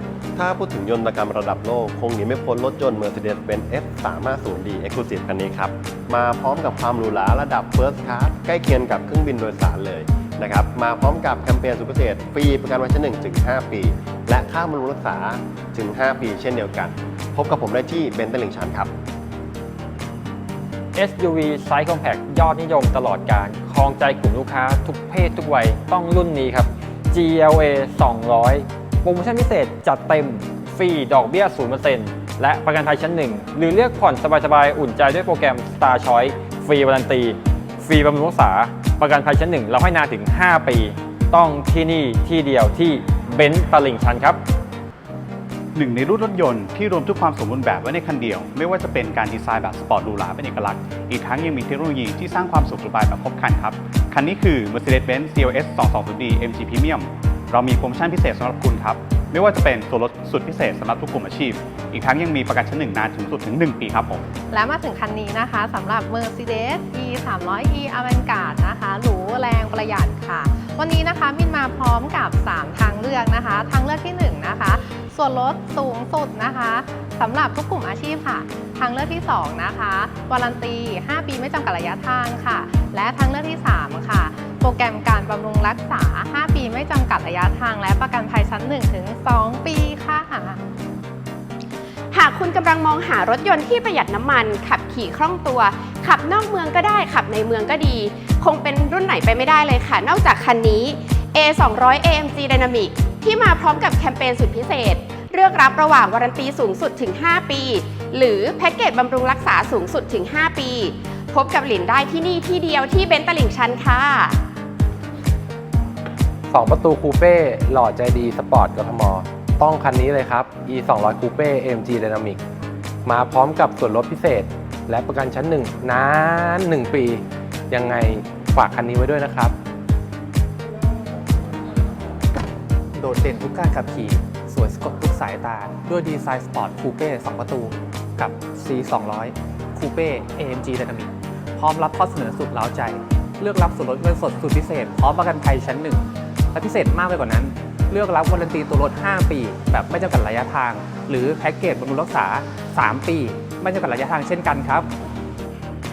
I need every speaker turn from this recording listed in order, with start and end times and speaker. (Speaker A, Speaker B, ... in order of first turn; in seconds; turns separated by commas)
Speaker A: 0.4-18.9, Speaker B: 20.9-44.4, Speaker C: 45.8-64.2, Speaker D: 64.5-90.6, Speaker E: 92.1-114.4, Speaker F: 116.5-122.4, Speaker F: 123.0-129.6, Speaker G: 132.9-154.9